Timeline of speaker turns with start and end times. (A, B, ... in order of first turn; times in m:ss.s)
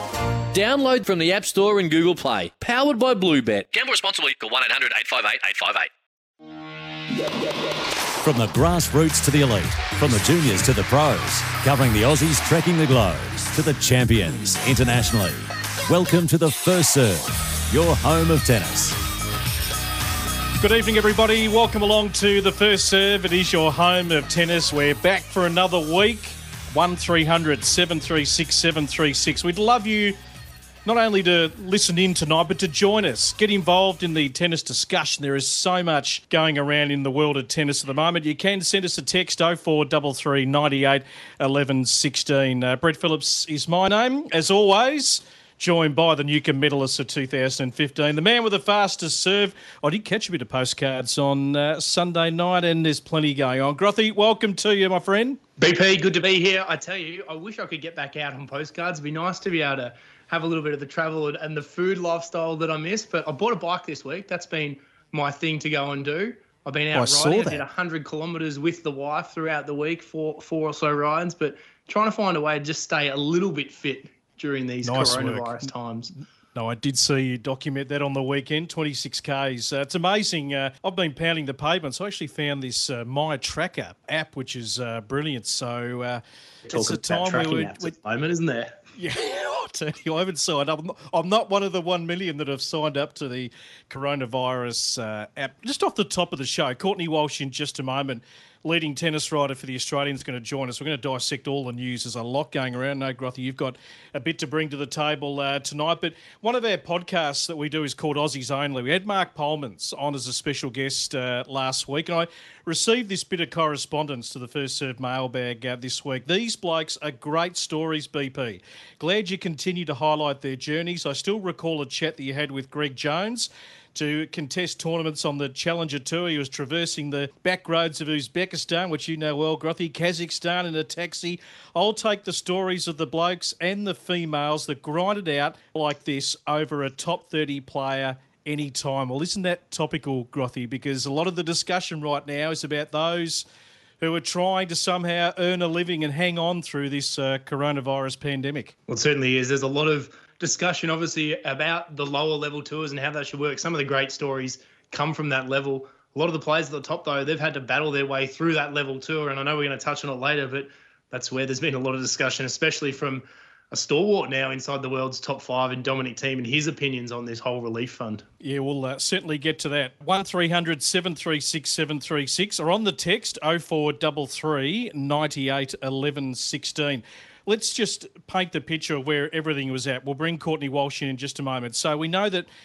0:00.5-0:05.9 A
0:08.2-0:19.0 B
0:20.6-0:30.2 C
0:30.8-0:55.4 C
0:55.6-1:16.1 D
1:06.9-1:07.6 C
1:14.8-1:15.7 C
1:16.5-1:27.9 C
1:26.6-1:28.8 D
1:29.0-2:23.4 C
2:24.0-2:28.7 C
2:28.9-2:48.2 D
2:48.4-3:02.5 C